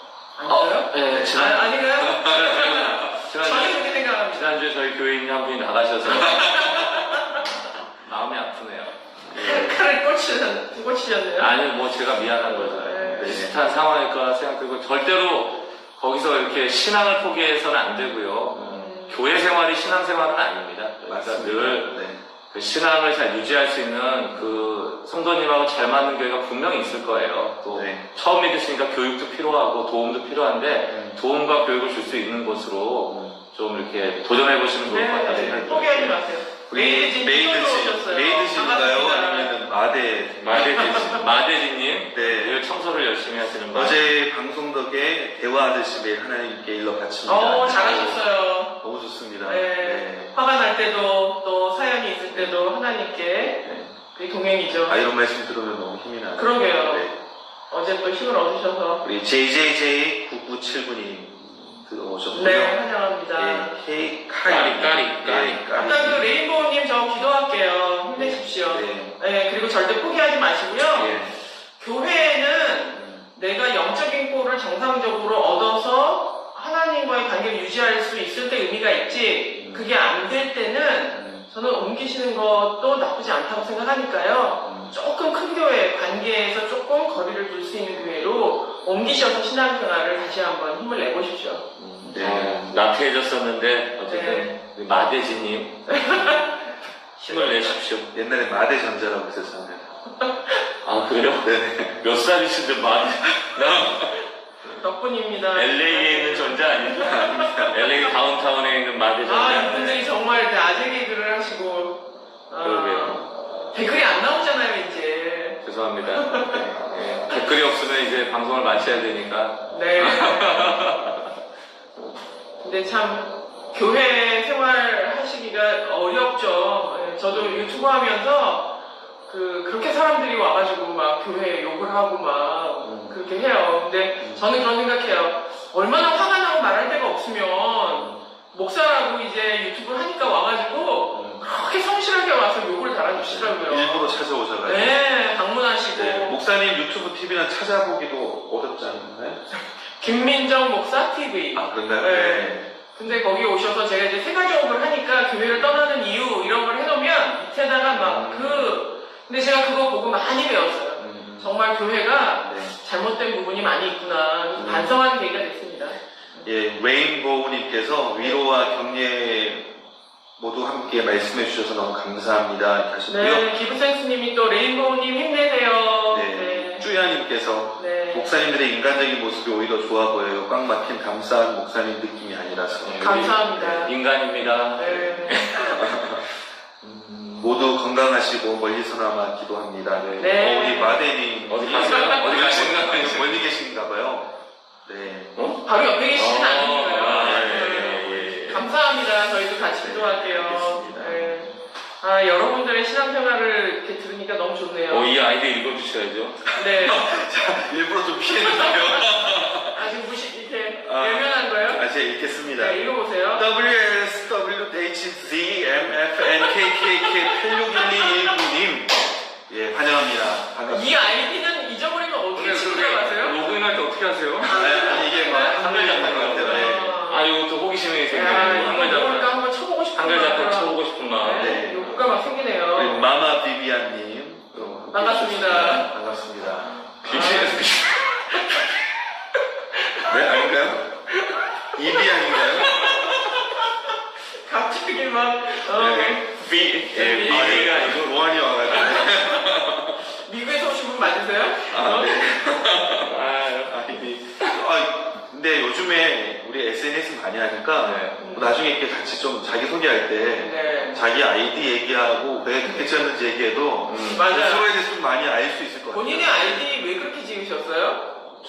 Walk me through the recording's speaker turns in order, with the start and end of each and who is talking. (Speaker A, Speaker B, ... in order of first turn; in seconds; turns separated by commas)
Speaker A: 0.4-4.6, Speaker B: 0.5-9.1, Speaker C: 1.1-3.1, Speaker A: 6.0-7.4, Speaker C: 9.2-9.8, Speaker A: 9.3-11.5, Speaker B: 11.4-22.0, Speaker A: 12.4-13.5, Speaker C: 13.1-13.6, Speaker C: 18.5-18.9, Speaker A: 18.7-19.2, Speaker C: 21.1-22.2, Speaker B: 22.5-36.2, Speaker C: 27.7-28.0, Speaker C: 30.9-31.2, Speaker C: 33.1-33.4, Speaker A: 34.9-39.5, Speaker C: 35.3-36.1, Speaker C: 36.7-41.3, Speaker B: 40.4-44.1, Speaker A: 40.5-41.2, Speaker C: 42.1-42.6, Speaker C: 43.7-48.2, Speaker A: 47.2-48.8, Speaker C: 48.8-50.3, Speaker A: 49.4-55.0, Speaker C: 53.6-53.9, Speaker C: 54.9-57.1, Speaker A: 56.4-57.1, Speaker A: 57.7-59.0, Speaker C: 59.0-62.8, Speaker A: 62.3-63.7, Speaker C: 63.3-66.3, Speaker B: 64.4-65.6, Speaker A: 65.7-71.2, Speaker C: 68.1-69.1, Speaker C: 71.0-71.3, Speaker A: 71.8-91.6, Speaker C: 72.9-73.2, Speaker C: 79.5-79.9, Speaker C: 81.1-81.4, Speaker C: 84.6-84.9, Speaker B: 91.8-96.4, Speaker C: 92.0-92.7, Speaker A: 94.1-94.5, Speaker A: 95.9-96.4, Speaker B: 97.2-98.1, Speaker C: 97.3-99.9, Speaker B: 100.8-104.1, Speaker C: 101.4-102.1, Speaker C: 103.3-104.1, Speaker A: 104.8-107.8, Speaker B: 105.5-110.1, Speaker C: 107.0-107.8, Speaker A: 109.2-116.6, Speaker B: 112.6-113.2, Speaker B: 115.6-121.2, Speaker C: 116.4-116.9, Speaker A: 119.7-120.7, Speaker A: 122.6-128.8, Speaker C: 127.3-127.7, Speaker A: 129.3-146.4, Speaker C: 132.8-133.2, Speaker C: 134.2-134.5, Speaker C: 137.8-138.2, Speaker C: 141.1-141.4, Speaker C: 143.1-145.0, Speaker C: 145.9-149.4, Speaker A: 150.0-166.5, Speaker C: 151.5-152.7, Speaker C: 155.5-155.8, Speaker C: 157.9-158.8, Speaker C: 161.0-161.5, Speaker C: 162.4-162.7, Speaker C: 164.5-165.0, Speaker C: 166.4-169.8, Speaker C: 170.4-173.5, Speaker A: 173.1-176.9, Speaker C: 176.1-183.9, Speaker A: 177.8-178.3, Speaker B: 182.8-186.2, Speaker A: 183.0-183.9, Speaker A: 184.8-185.8, Speaker C: 185.7-186.2, Speaker C: 186.8-194.3, Speaker A: 190.2-191.1, Speaker B: 191.5-193.4, Speaker A: 191.8-192.2, Speaker C: 194.8-195.4, Speaker B: 195.3-198.7, Speaker A: 195.6-201.5, Speaker C: 197.0-198.3, Speaker C: 199.8-201.5, Speaker A: 202.0-205.1, Speaker B: 204.9-206.4, Speaker C: 206.5-209.9, Speaker A: 206.5-207.1, Speaker A: 208.3-209.0, Speaker A: 209.6-211.9, Speaker C: 210.8-221.0, Speaker A: 212.4-213.5, Speaker A: 216.3-218.3, Speaker A: 220.7-223.4, Speaker B: 222.3-229.3, Speaker A: 224.4-227.3, Speaker C: 224.5-227.0, Speaker A: 228.1-233.0, Speaker B: 229.9-231.6, Speaker C: 231.4-232.0, Speaker C: 232.7-237.4, Speaker A: 234.9-235.9, Speaker B: 237.0-238.5, Speaker A: 237.1-238.5, Speaker C: 240.0-240.9, Speaker A: 241.3-243.7, Speaker C: 241.7-243.0, Speaker A: 244.4-246.3, Speaker C: 245.7-246.2, Speaker B: 245.8-248.8, Speaker A: 246.9-248.0, Speaker C: 247.3-250.1, Speaker A: 248.7-249.5, Speaker A: 250.0-252.5, Speaker C: 251.7-266.8, Speaker B: 253.0-254.1, Speaker B: 257.8-258.2, Speaker A: 258.2-258.6, Speaker A: 260.4-261.0, Speaker A: 262.6-263.0, Speaker B: 263.8-264.2, Speaker A: 264.1-264.7, Speaker A: 265.9-268.1